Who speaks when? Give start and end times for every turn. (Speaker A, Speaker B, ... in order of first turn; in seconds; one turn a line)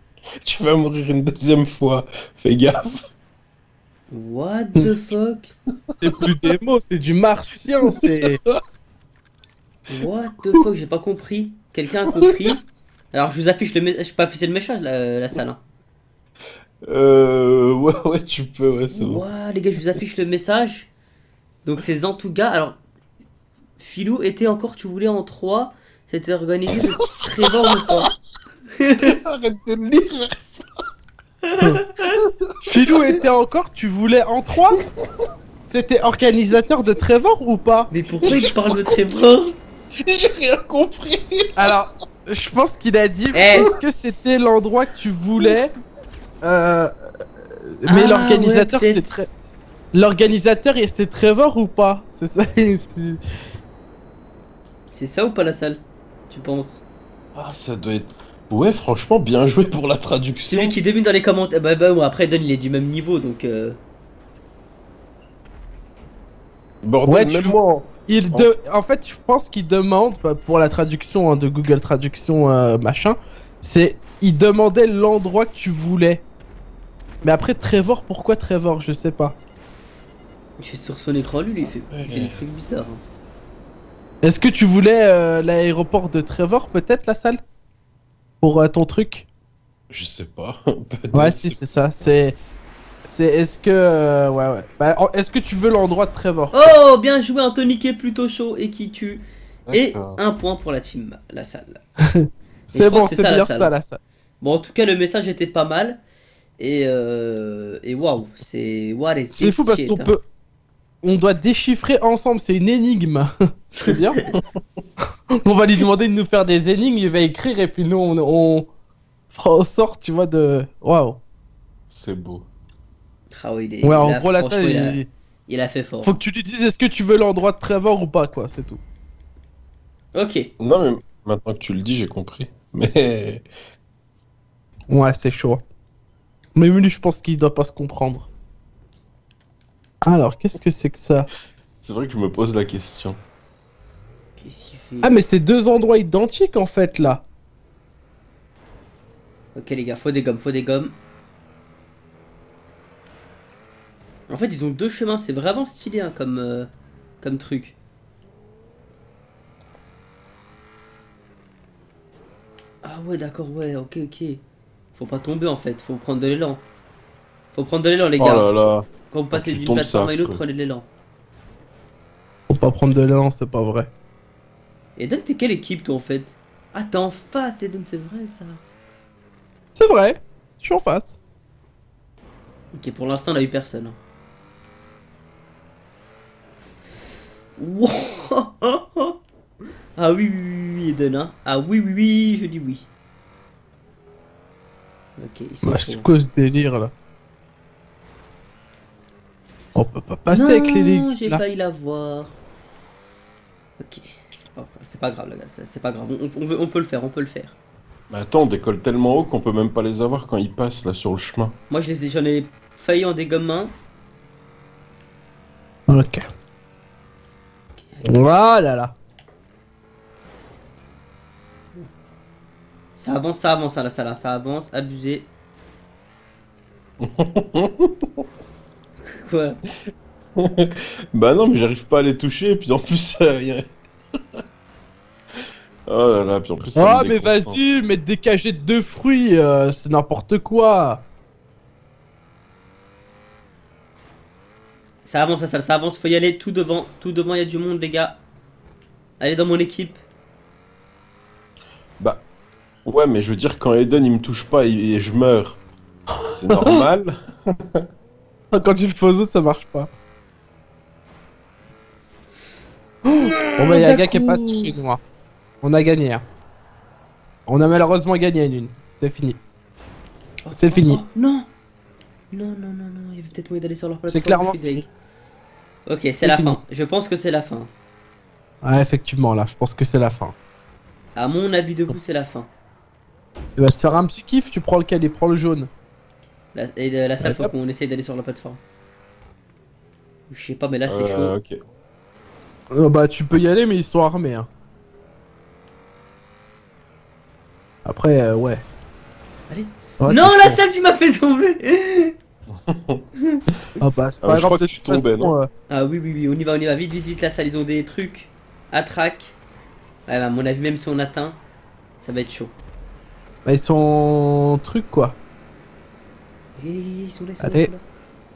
Speaker A: 0.4-3.0
Speaker B: 4.1-5.5
Speaker C: 6.0-8.4
Speaker A: 8.0-8.6
Speaker B: 9.9-12.6
Speaker B: 13.1-15.6
Speaker A: 16.9-19.2
Speaker B: 18.9-20.9
Speaker B: 21.6-22.8
Speaker B: 23.8-28.1
Speaker B: 28.8-29.1
Speaker A: 29.0-30.6
Speaker B: 31.5-32.1
Speaker C: 32.6-34.8
Speaker C: 35.7-38.4
Speaker B: 37.9-39.6
Speaker A: 38.3-39.0
Speaker A: 40.0-41.7
Speaker C: 41.6-45.7
Speaker B: 43.3-44.7
Speaker C: 46.4-46.9
Speaker C: 47.8-49.3
Speaker B: 47.9-49.0
Speaker C: 49.9-53.2
Speaker B: 54.9-56.8
Speaker A: 57.4-60.8
Speaker B: 60.5-63.8
Speaker A: 66.8-68.5
Speaker C: 67.1-67.6
Speaker C: 68.1-76.3
Speaker C: 77.2-79.4
Speaker B: 80.6-83.0
Speaker A: 81.9-82.4
Speaker C: 84.2-87.4
Speaker C: 88.4-89.3
Speaker A: 89.9-91.6
Speaker C: 91.1-92.4
Speaker C: 93.0-96.8
Speaker B: 96.5-101.8
Speaker A: 99.7-100.2
Speaker C: 102.2-104.0
Speaker B: 102.7-103.7
Speaker B: 104.4-106.0
Speaker B: 106.6-110.1
Speaker C: 109.3-110.2
Speaker C: 111.0-114.2
Speaker C: 115.5-118.7
Speaker C: 119.3-121.2
Speaker A: 121.9-122.5
Speaker B: 123.3-126.2
Speaker C: 123.8-125.1
Speaker C: 126.0-128.8
Speaker B: 130.2-130.5
Speaker A: 130.6-133.4
Speaker C: 134.9-135.6
Speaker C: 136.6-138.3
Speaker C: 140.0-141.3
Speaker A: 141.8-143.2
Speaker B: 144.4-145.2
Speaker C: 145.0-147.2
Speaker B: 149.6-151.0
Speaker B: 154.3-156.7
Speaker B: 157.2-157.8
Speaker B: 162.8-164.4
Speaker B: 164.9-166.7
Speaker B: 167.5-168.5
Speaker A: 168.2-170.4
Speaker B: 169.1-170.9
Speaker C: 172.5-173.9
Speaker B: 175.0-178.6
Speaker C: 179.8-181.2
Speaker B: 182.7-184.0
Speaker B: 187.6-189.2
Speaker B: 190.0-192.9
Speaker B: 195.2-196.1
Speaker C: 195.6-196.9
Speaker C: 199.8-201.4
Speaker B: 200.3-202.4
Speaker B: 203.8-207.6
Speaker A: 208.1-211.6
Speaker B: 211.7-213.8
Speaker C: 215.9-216.2
Speaker B: 217.9-218.2
Speaker C: 218.0-218.9
Speaker B: 223.0-225.3
Speaker A: 227.0-227.9
Speaker B: 229.0-229.6
Speaker A: 230.4-233.6
Speaker A: 235.9-237.6
Speaker C: 236.8-241.1
Speaker B: 245.1-248.2
Speaker B: 249.2-250.0
Speaker A: 252.0-252.3
Speaker A: 252.8-255.6
Speaker A: 256.3-257.1
Speaker C: 256.3-256.8
Speaker C: 258.5-259.9
Speaker C: 263.1-265.0
Speaker B: 263.1-264.7
Speaker C: 265.6-266.2
Speaker C: 267.5-269.4
Speaker B: 270.4-271.5
Speaker C: 270.5-271.0
Speaker B: 272.3-274.9
Speaker C: 274.1-274.8
Speaker B: 275.9-277.7
Speaker C: 276.2-276.6
Speaker C: 278.6-280.4
Speaker B: 281.2-282.5
Speaker C: 283.6-285.7
Speaker B: 286.5-288.6
Speaker C: 287.2-287.5
Speaker B: 290.3-291.4
Speaker A: 290.9-291.6
Speaker C: 292.7-294.5
Speaker C: 297.9-298.7
Speaker B: 299.5-302.1
Speaker C: 300.0-300.6
Speaker A: 302.7-303.0
Speaker C: 303.8-305.5
Speaker A: 304.2-305.4
Speaker B: 305.7-309.4
Speaker B: 310.1-311.4
Speaker B: 312.0-312.6
Speaker C: 313.4-315.2
Speaker B: 316.6-317.8
Speaker C: 317.4-317.7